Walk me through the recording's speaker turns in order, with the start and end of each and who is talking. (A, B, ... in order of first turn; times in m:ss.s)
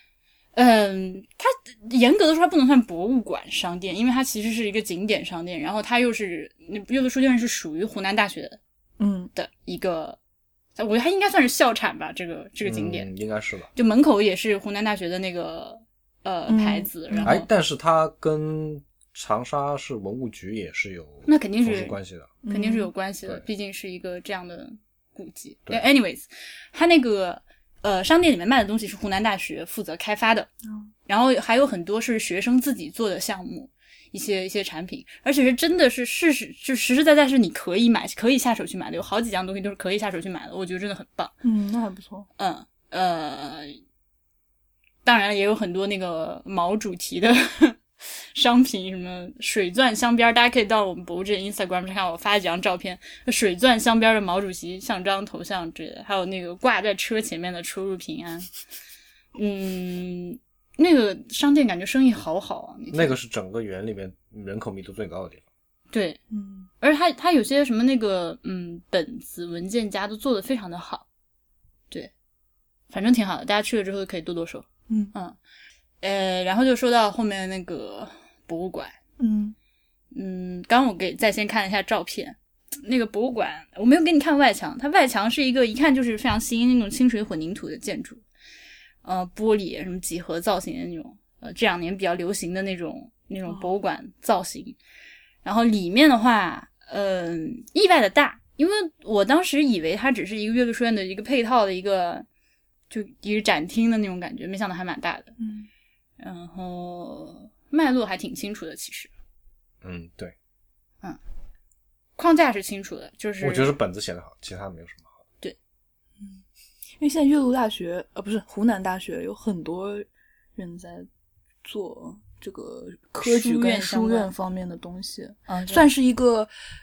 0:00.5-0:08.6 A
0:09.0-0:09.3 B
0:09.3-0:10.2 A
0:10.8-0:13.1 A
0:12.6-0:13.7 C
0:13.7-0:17.5 A
0:16.5-0:17.4 B
0:17.2-0:22.3 C
0:21.2-0:22.0 A
0:22.4-0:22.9 B
0:22.5-0:30.5 A
0:31.1-0:41.3 A
0:41.4-0:42.3 B
0:42.4-0:43.8 A
0:45.0-0:58.5 A
0:59.3-1:03.2 A
1:02.9-1:05.4 C
1:05.9-1:06.2 A
1:06.3-1:06.7 B
1:06.8-1:11.0 A
1:12.9-1:15.4 A
1:14.9-1:15.1 B
1:16.0-1:19.0 A
1:19.2-1:19.5 B
1:20.1-1:28.2 A
1:29.0-1:34.8 A
1:33.5-1:33.7 B
1:35.4-1:42.2 A
1:42.9-1:45.3 A
1:45.4-1:45.7 B
1:46.2-1:49.1 A
1:49.8-1:50.3 C
1:52.2-1:53.7 A
1:53.4-1:55.1 C
1:57.0-2:01.1 B
2:01.6-2:06.5 B
2:03.2-2:04.3 A
2:05.5-2:05.8 A